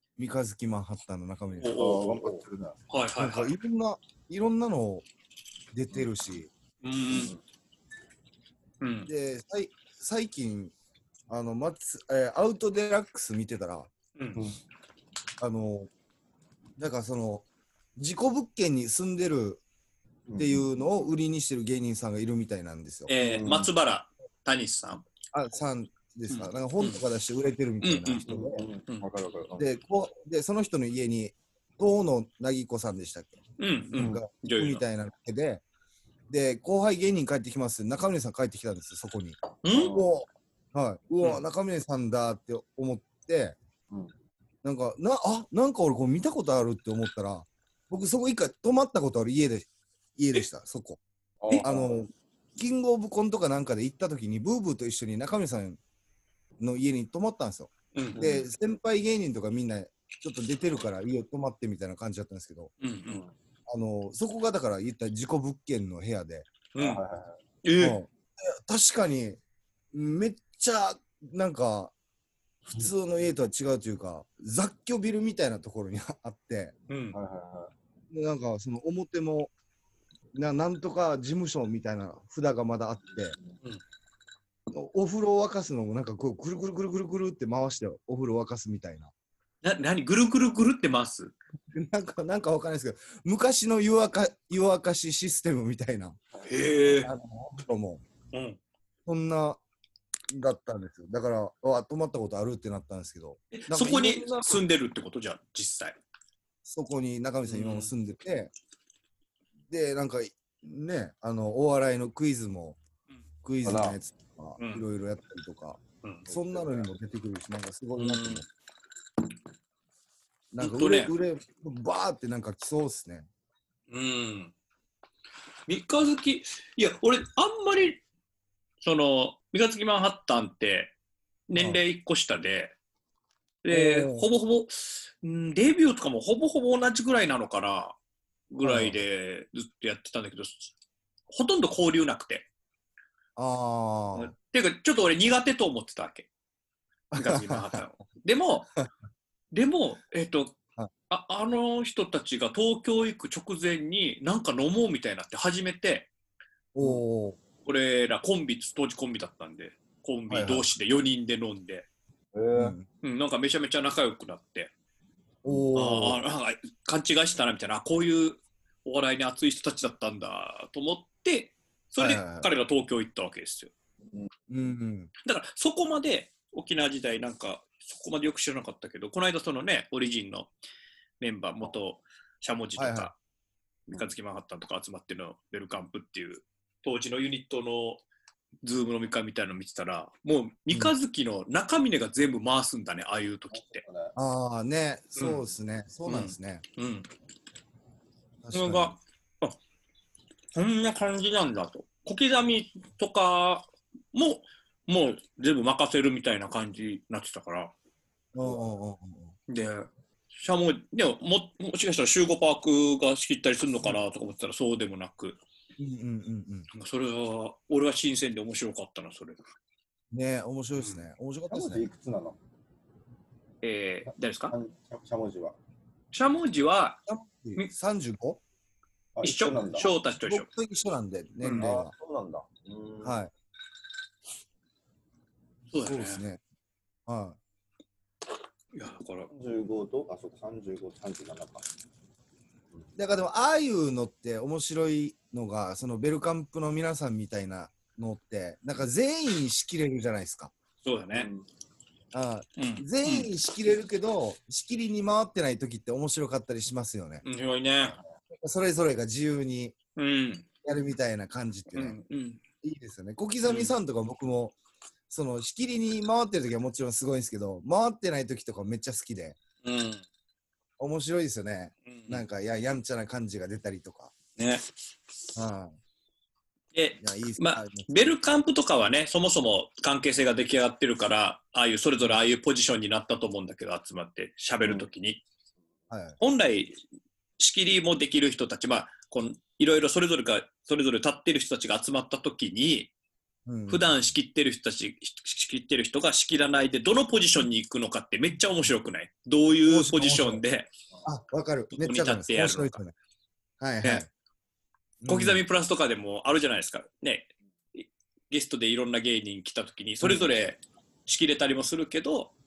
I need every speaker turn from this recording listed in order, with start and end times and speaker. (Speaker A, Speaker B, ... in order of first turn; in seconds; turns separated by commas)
Speaker A: 0.2-1.8, Speaker B: 1.6-3.5, Speaker C: 1.7-2.8, Speaker A: 3.2-5.0, Speaker A: 5.7-6.5, Speaker B: 6.8-7.3, Speaker B: 8.8-9.1, Speaker A: 9.1-10.7, Speaker A: 11.3-13.9, Speaker B: 14.2-14.4, Speaker A: 15.4-15.9, Speaker A: 16.8-19.6, Speaker C: 20.3-20.6, Speaker A: 20.4-23.1, Speaker B: 23.1-25.0, Speaker C: 23.2-23.7, Speaker A: 25.3-28.6, Speaker B: 26.3-27.0, Speaker B: 27.8-28.2, Speaker C: 28.2-29.7, Speaker A: 29.6-33.4, Speaker B: 33.6-34.8, Speaker A: 33.9-35.6, Speaker A: 36.3-43.6, Speaker B: 39.6-40.0, Speaker C: 39.7-40.1, Speaker A: 44.6-51.0, Speaker C: 51.4-52.0, Speaker A: 51.6-55.8, Speaker A: 56.6-62.7, Speaker B: 57.9-58.2, Speaker C: 58.1-58.5, Speaker B: 62.8-63.2, Speaker A: 63.7-66.5, Speaker B: 66.7-67.0, Speaker C: 66.8-67.4, Speaker B: 67.6-68.0, Speaker A: 67.8-69.4, Speaker A: 69.9-71.9, Speaker A: 72.7-76.7, Speaker B: 76.9-77.2, Speaker C: 77.1-77.7, Speaker A: 78.1-79.5, Speaker A: 80.3-83.4, Speaker A: 84.7-89.1, Speaker B: 89.6-91.3, Speaker A: 91.7-96.2, Speaker B: 96.4-97.1, Speaker A: 97.0-98.0, Speaker B: 98.3-98.6, Speaker A: 99.1-99.6, Speaker A: 100.3-104.6, Speaker B: 103.5-106.0, Speaker A: 106.6-108.5, Speaker B: 107.5-107.9, Speaker A: 109.7-112.8, Speaker A: 113.4-118.4, Speaker C: 113.6-114.0, Speaker B: 114.6-114.8, Speaker C: 116.3-116.8, Speaker B: 118.0-118.4, Speaker A: 120.5-123.3, Speaker B: 120.6-121.1, Speaker B: 123.9-124.5, Speaker B: 125.7-128.0, Speaker B: 128.8-130.9, Speaker B: 131.5-132.8, Speaker B: 133.6-138.0, Speaker A: 133.7-134.2, Speaker B: 138.5-140.7, Speaker A: 138.6-139.0, Speaker B: 141.3-142.5, Speaker A: 143.3-144.3, Speaker B: 144.1-146.3, Speaker A: 147.1-147.8, Speaker B: 147.1-148.7, Speaker B: 149.5-150.5, Speaker B: 151.1-156.1, Speaker A: 156.7-157.4, Speaker B: 157.6-161.9, Speaker A: 160.3-160.7, Speaker C: 162.3-162.8, Speaker A: 162.6-162.8, Speaker B: 163.0-164.7, Speaker A: 165.4-166.2, Speaker B: 165.7-173.7, Speaker A: 172.0-172.5, Speaker A: 174.5-175.1, Speaker B: 175.2-180.5, Speaker B: 181.2-183.2, Speaker A: 182.8-183.1, Speaker B: 183.9-188.0, Speaker B: 188.6-193.8, Speaker C: 193.5-194.1, Speaker A: 194.2-196.6, Speaker B: 195.2-195.5, Speaker B: 196.1-197.1, Speaker A: 198.4-198.9, Speaker B: 198.5-199.6, Speaker B: 200.5-207.7, Speaker A: 208.3-209.3, Speaker B: 209.5-215.4, Speaker A: 215.8-216.7, Speaker B: 216.7-219.4, Speaker A: 220.1-221.8, Speaker C: 221.5-222.4, Speaker B: 223.6-224.5, Speaker C: 224.5-225.6, Speaker B: 226.1-227.0, Speaker A: 227.1-228.4, Speaker C: 229.2-229.8, Speaker B: 229.2-230.5, Speaker A: 229.8-231.9, Speaker B: 231.4-231.7, Speaker C: 231.6-233.2, Speaker A: 233.0-233.3, Speaker B: 235.7-236.2, Speaker A: 235.8-236.4, Speaker A: 237.1-237.4, Speaker B: 238.7-239.3, Speaker C: 239.3-241.6, Speaker A: 243.0-250.5, Speaker B: 250.8-251.3, Speaker C: 251.2-251.4, Speaker A: 252.1-257.2, Speaker B: 252.6-253.3, Speaker B: 257.2-258.0, Speaker A: 258.3-259.7, Speaker B: 259.9-260.5, Speaker A: 260.6-262.0, Speaker B: 261.7-262.4, Speaker A: 262.6-264.5, Speaker B: 263.4-263.7, Speaker A: 265.1-269.4, Speaker B: 269.6-270.0, Speaker A: 270.8-274.1, Speaker B: 271.9-272.2, Speaker B: 274.4-274.6, Speaker A: 275.4-275.8, Speaker B: 276.7-285.2, Speaker A: 277.0-278.0, Speaker A: 285.9-286.2, Speaker B: 286.2-286.8, Speaker B: 287.4-292.9, Speaker A: 293.4-294.1, Speaker B: 293.7-300.7, Speaker A: 299.6-300.4, Speaker A: 301.0-302.9, Speaker B: 301.7-302.8, Speaker A: 303.6-304.1, Speaker A: 305.0-305.4, Speaker B: 305.1-312.3